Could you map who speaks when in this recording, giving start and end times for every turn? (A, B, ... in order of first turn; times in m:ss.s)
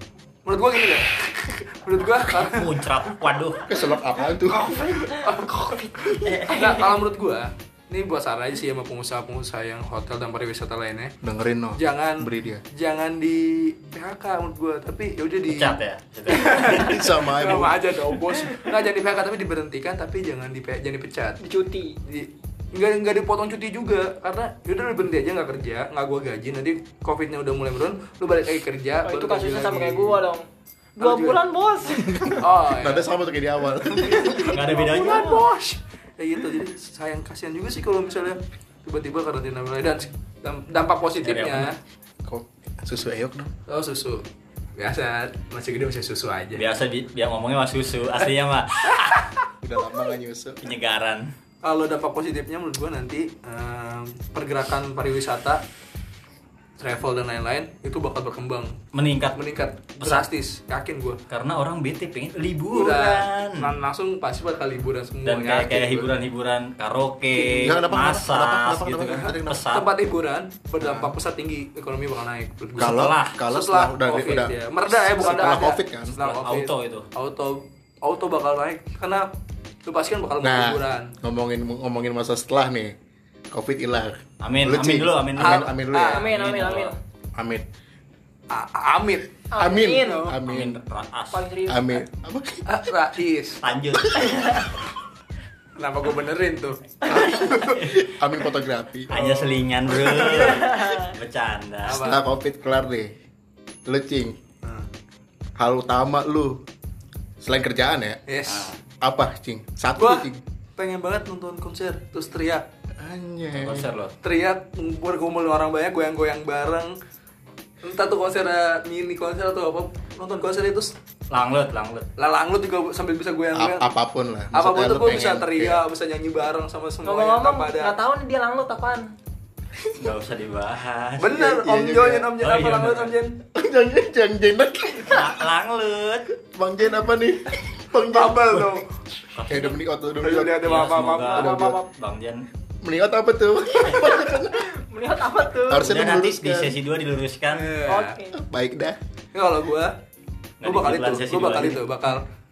0:00.4-0:02.8 A
0:02.3-0:03.6 B
0:03.6-0:05.1 C
0:04.6-0:05.2 D
0:05.2-0:11.1 A
0:06.2-0:06.9 B
0:11.2-0:12.6 C
0:11.8-0:15.8 A
0:15.5-0:17.1 B
0:16.3-0:21.4 A
0:16.6-0:17.9 C
0:21.4-0:22.0 D
0:22.0-0:30.2 A
0:29.0-0:30.4 D
0:31.0-0:32.4 D
0:31.0-0:31.4 A
0:32.0-0:34.6 C
0:32.4-0:33.1 A
0:34.0-0:41.8 A
0:34.2-0:35.4 B
0:41.2-0:41.7 B
0:42.2-0:43.5 C
0:43.7-0:44.2 A
0:44.8-0:46.6 A
0:46.6-0:49.3 B
0:49.6-0:50.6 C
0:50.6-0:51.3 B
0:51.6-0:55.6 A
0:56.8-0:58.8 A
0:58.9-0:59.4 B
0:59.4-1:01.2 A
1:00.0-1:00.3 B
1:01.3-1:03.7 B
1:02.7-1:06.1 A
1:05.2-1:09.9 B
1:07.3-1:07.8 A
1:07.6-1:09.6 C
1:09.7-1:19.3 A
1:10.8-1:11.1 C
1:12.8-1:13.4 B
1:12.8-1:16.1 C
1:15.2-1:15.6 B
1:16.2-1:17.1 B
1:19.8-1:21.1 A
1:20.4-1:22.9 C
1:23.5-1:26.3 C
1:24.4-1:26.9 B
1:25.4-1:26.3 A
1:26.1-1:27.0 D
1:27.4-1:27.6 C
1:28.5-1:29.3 A
1:29.5-1:30.3 D
1:29.6-1:30.8 C
1:30.0-1:30.4 A
1:30.4-1:31.4 B
1:31.3-1:32.0 D
1:31.7-1:32.8 C
1:32.7-1:33.6 A
1:33.6-1:34.6 B
1:34.1-1:34.4 C
1:35.8-1:36.8 A
1:37.0-1:39.2 C
1:39.1-1:42.2 B
1:39.1-1:40.8 A
1:40.5-1:41.1 D
1:41.8-1:42.2 A
1:42.0-1:43.1 C
1:43.8-1:44.4 C
1:44.6-1:44.9 A
1:45.6-1:46.6 C
1:47.4-1:48.2 C
1:48.3-1:48.7 A
1:48.4-1:48.8 B
1:49.0-1:50.4 C
1:50.0-1:52.6 A
1:53.0-1:53.9 C
1:53.6-1:54.1 B
1:54.2-1:57.0 A
1:57.8-2:00.9 A
2:01.3-2:02.1 B
2:02.2-2:03.9 A
2:03.5-2:05.8 C
2:04.5-2:07.9 A
2:07.0-2:09.1 D
2:10.0-2:11.6 B
2:11.2-2:13.4 A
2:11.4-2:12.3 C
2:12.4-2:13.2 B
2:13.5-2:15.4 C
2:15.0-2:16.3 B
2:16.4-2:18.8 C
2:18.1-2:18.8 A
2:19.4-2:19.8 B
2:19.5-2:20.7 C
2:20.2-2:21.5 A
2:20.6-2:22.4 B
2:21.3-2:21.8 C
2:21.4-2:21.9 D
2:22.8-2:24.6 C
2:24.3-2:25.9 D
2:25.7-2:26.8 C
2:25.8-2:27.7 B
2:27.5-2:28.2 A
2:27.8-2:28.4 D
2:28.3-2:29.0 C
2:29.3-2:29.9 A
2:30.6-2:31.8 B
2:30.6-2:32.2 A